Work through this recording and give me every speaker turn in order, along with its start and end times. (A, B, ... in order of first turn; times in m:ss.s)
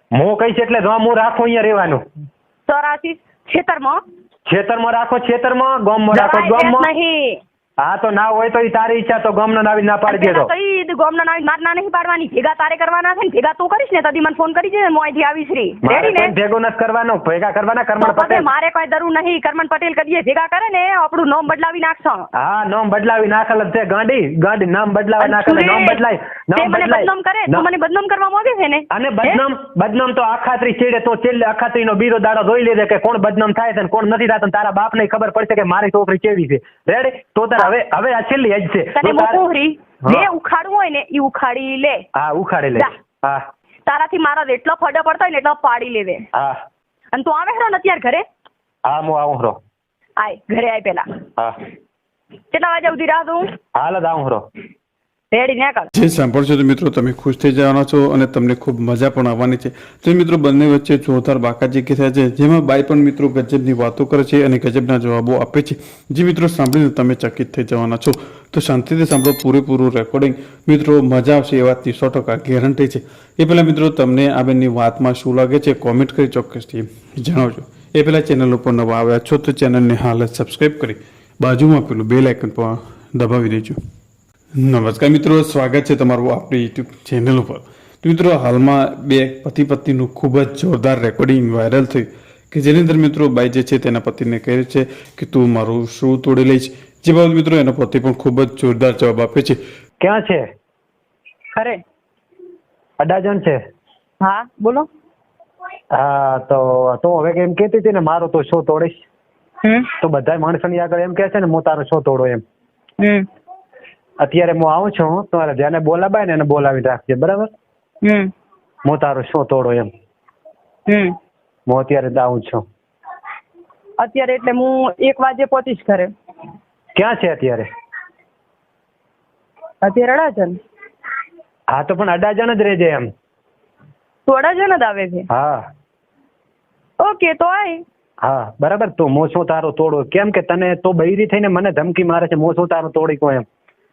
0:00.1-0:02.0 A
0:02.7-0:04.0 B
0:04.5-0:06.9 A
0:06.1-0:07.4 B
0:07.8-0:10.5 A
0:10.1-0:16.4 B
0:15.8-0:18.4 A
0:18.0-0:22.3 B
0:22.4-0:27.6 A
0:25.2-0:26.0 B
0:26.6-0:29.4 B
0:28.9-0:39.4 A
0:39.0-0:42.0 B
0:42.1-0:43.4 A
0:43.9-0:46.2 B
0:46.3-0:46.6 A
0:47.1-0:48.2 B
0:48.8-0:49.6 A
0:50.2-0:51.1 B
0:52.5-0:53.5 B
0:53.7-0:54.4 A
0:55.3-0:55.9 B
0:55.9-1:23.8 C
1:24.6-1:39.6 C
1:40.0-1:40.4 A
1:41.5-1:41.8 B
1:43.0-1:43.6 A
1:44.2-1:44.9 B
1:45.9-1:49.1 A
1:49.6-1:49.9 B
1:50.0-1:52.4 A
1:53.0-1:53.3 B
1:54.2-1:57.5 A
1:58.0-1:58.3 B
1:58.8-1:59.9 A
2:00.9-2:01.2 B
2:01.7-2:02.6 A
2:04.0-2:06.1 B
2:06.9-2:07.7 A
2:09.8-2:10.6 B
2:11.7-2:13.1 A
2:14.2-2:15.3 B
2:15.3-2:15.6 A
2:17.0-2:17.8 B
2:18.2-2:23.4 A